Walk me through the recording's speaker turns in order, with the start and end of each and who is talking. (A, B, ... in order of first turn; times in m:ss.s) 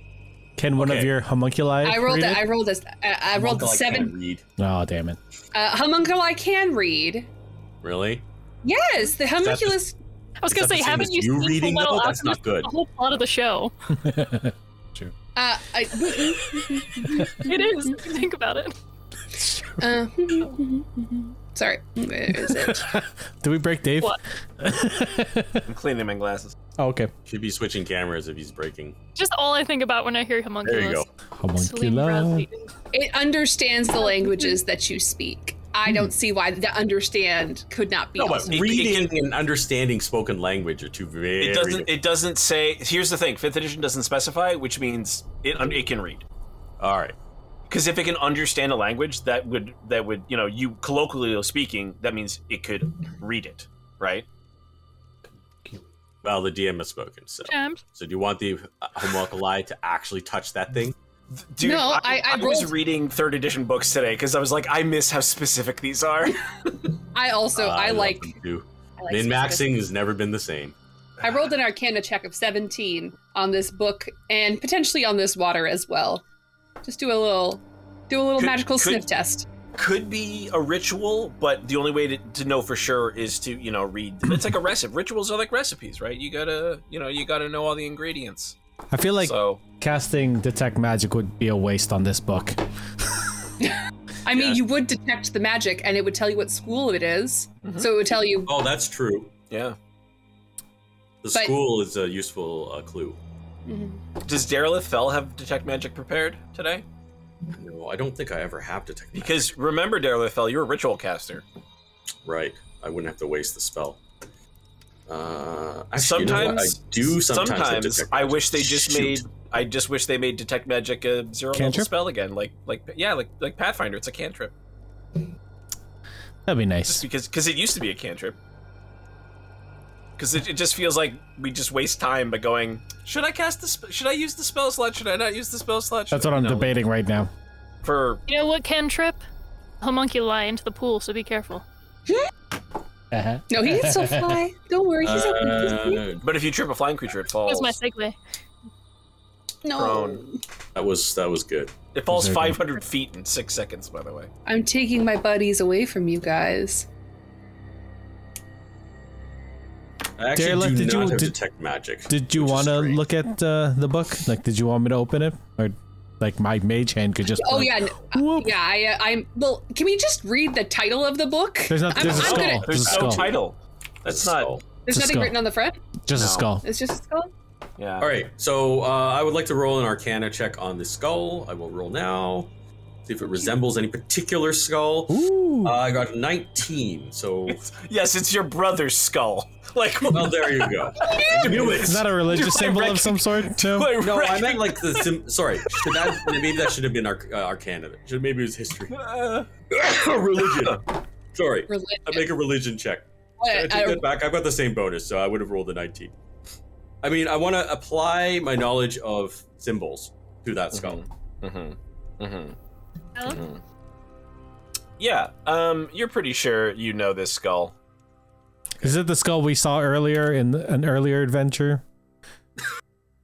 0:00.6-0:02.5 A
0:00.8-0:01.1 B
0:01.8-0:04.1 C
0:03.4-0:04.4 B
0:04.6-0:05.2 A
0:05.5-0:07.3 C
0:07.8-0:08.2 B
0:08.6-0:10.0 C
0:09.4-0:09.8 B
0:10.4-0:13.7 D
0:10.5-0:12.7 B
0:14.0-0:15.1 A
0:15.4-0:18.0 C
0:17.4-0:18.8 D
0:19.4-0:19.9 A
0:19.8-0:22.9 C
0:22.4-0:25.7 A
0:25.7-0:26.6 E
0:26.8-0:27.1 A
0:27.3-0:29.0 B
0:29.2-0:32.7 D
0:30.6-0:31.1 B
0:31.4-0:32.5 A
0:32.9-0:38.8 C
0:34.0-0:34.6 D
0:35.9-0:36.1 A
0:38.2-0:41.9 B
0:38.5-0:39.1 E
0:41.4-0:46.2 E
0:46.8-0:47.2 B
0:47.7-0:54.3 E
0:56.2-1:01.0 B
0:57.5-0:57.8 D
1:01.3-1:06.8 E
1:01.6-1:02.8 C
1:07.1-1:08.4 C
1:07.6-1:10.8 B
1:09.0-1:09.8 C
1:11.2-1:16.2 C
1:16.8-1:19.5 C
1:18.4-1:19.1 E
1:19.8-1:28.6 E
1:28.9-1:32.6 A
1:29.2-1:29.6 E
1:33.6-1:38.5 C
1:37.6-1:38.0 E
1:38.5-1:39.4 B
1:39.5-1:39.8 E
1:41.2-1:43.2 B
1:43.7-1:44.0 C
1:44.2-1:46.8 E
1:47.5-1:49.5 B
1:49.1-1:51.4 E
1:52.2-1:54.0 B
1:55.1-1:59.3 B
1:56.0-2:04.5 E
2:01.5-2:01.9 A
2:06.5-2:07.0 A
2:06.8-2:08.4 E
2:10.2-2:16.7 E
2:16.1-2:17.3 A
2:17.8-2:18.2 E
2:18.3-2:19.2 D
2:19.8-2:21.6 D
2:23.1-2:24.4 A
2:23.5-2:26.1 C
2:25.0-2:26.3 B
2:26.2-2:27.8 E
2:27.5-2:28.2 D
2:29.6-2:30.4 C
2:29.8-2:30.2 E
2:30.8-2:31.8 B
2:31.9-2:34.3 E
2:32.1-2:32.6 A
2:34.5-2:36.9 C
2:40.2-2:43.0 B
2:40.4-2:41.4 A
2:42.1-2:48.6 A
2:47.4-2:52.7 C
2:51.7-2:53.4 A
2:52.0-2:53.4 B
2:52.0-2:54.5 E
2:54.1-2:54.6 B
2:54.9-2:55.8 C
2:54.9-2:55.4 A
2:56.1-2:56.6 A
2:56.1-2:56.6 E
2:56.6-2:57.3 C
2:57.8-2:58.1 E
2:58.0-3:02.5 B
3:03.1-3:07.6 B
3:03.3-3:03.5 C
3:05.1-3:05.8 A
3:07.5-3:15.1 E
3:10.1-3:12.1 B
3:11.0-3:11.5 C
3:11.4-3:13.9 A
3:14.0-3:19.0 B
3:15.8-3:16.6 E
3:18.9-3:20.8 E
3:19.7-3:26.1 B
3:21.7-3:22.3 C
3:23.4-3:24.1 C
3:27.0-3:31.0 B
3:30.7-3:32.6 E
3:33.2-3:33.6 E
3:35.0-3:37.8 E
3:38.8-3:41.8 A